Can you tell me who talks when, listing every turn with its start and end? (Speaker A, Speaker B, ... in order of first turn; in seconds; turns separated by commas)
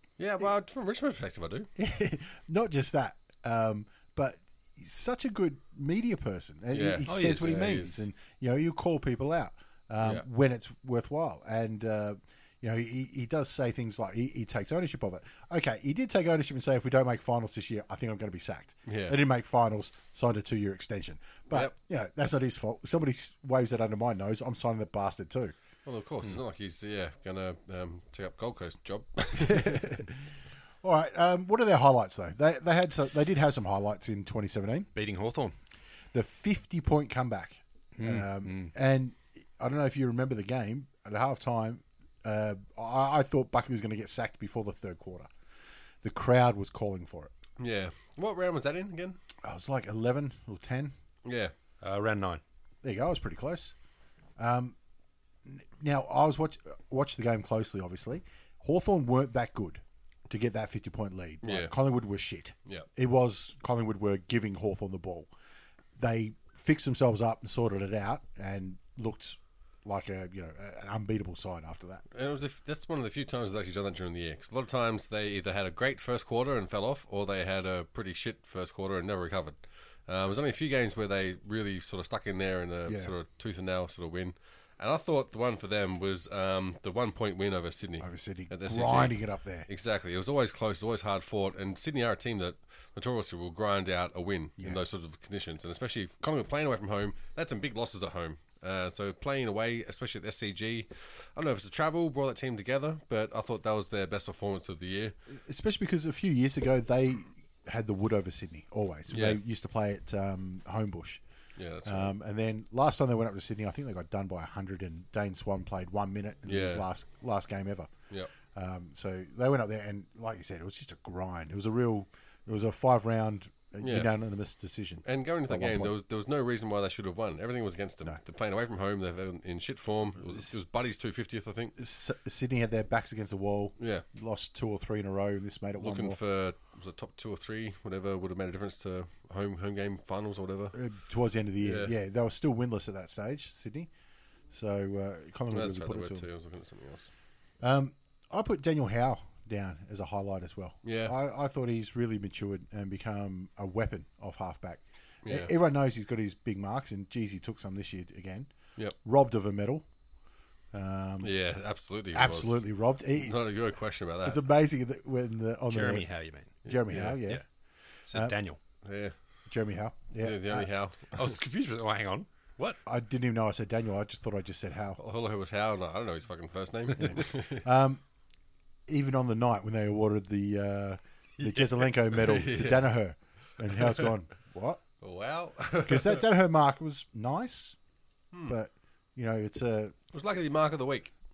Speaker A: 0.2-1.7, Speaker B: 1.8-25.6, Speaker A: 6.7-8.0, Speaker C: 7.1-7.9, Speaker A: 18.9-19.2, Speaker A: 25.9-30.0, Speaker B: 29.4-30.1, Speaker B: 30.8-34.9, Speaker C: 35.0-35.5, Speaker B: 36.1-45.3, Speaker C: 38.0-38.7, Speaker B: 46.0-47.3, Speaker A: 47.6-49.2, Speaker B: 49.4-51.0, Speaker A: 51.2-51.5, Speaker C: 51.8-52.4, Speaker B: 52.8-53.8, Speaker B: 54.4-54.8, Speaker B: 55.5-65.3, Speaker A: 61.4-61.7, Speaker B: 66.0-72.0, Speaker A: 72.1-89.2, Speaker B: 82.9-83.1, Speaker B: 88.0-89.7, Speaker A: 89.7-105.1, Speaker B: 105.3-111.2, Speaker A: 109.1-109.4, Speaker A: 111.6-112.2, Speaker B: 111.8-117.9, Speaker A: 116.5-116.8, Speaker B: 118.5-126.0, Speaker A: 123.8-124.1, Speaker A: 125.0-131.8, Speaker B: 130.2-130.9, Speaker B: 131.8-136.2, Speaker A: 133.8-134.0, Speaker A: 135.8-140.8, Speaker B: 140.7-143.9, Speaker A: 141.6-141.9, Speaker B: 144.5-146.2, Speaker A: 145.5-147.1, Speaker B: 147.6-158.5, Speaker A: 150.8-151.2, Speaker A: 155.2-155.5, Speaker B: 159.0-159.9, Speaker B: 160.7-161.3, Speaker A: 161.2-164.4, Speaker B: 162.1-163.4, Speaker B: 164.2-166.1, Speaker C: 165.7-167.4, Speaker B: 166.6-167.4, Speaker A: 166.7-167.2, Speaker C: 168.1-168.6, Speaker A: 168.8-169.1, Speaker B: 169.5-170.7, Speaker A: 170.2-171.4, Speaker C: 171.2-172.8, Speaker B: 172.9-175.0, Speaker A: 175.0-177.6, Speaker B: 177.0-178.0, Speaker B: 178.9-184.8, Speaker A: 181.5-182.9, Speaker A: 183.8-184.1, Speaker A: 185.0-186.2, Speaker B: 185.8-187.8, Speaker B: 188.5-190.0, Speaker A: 190.1-191.1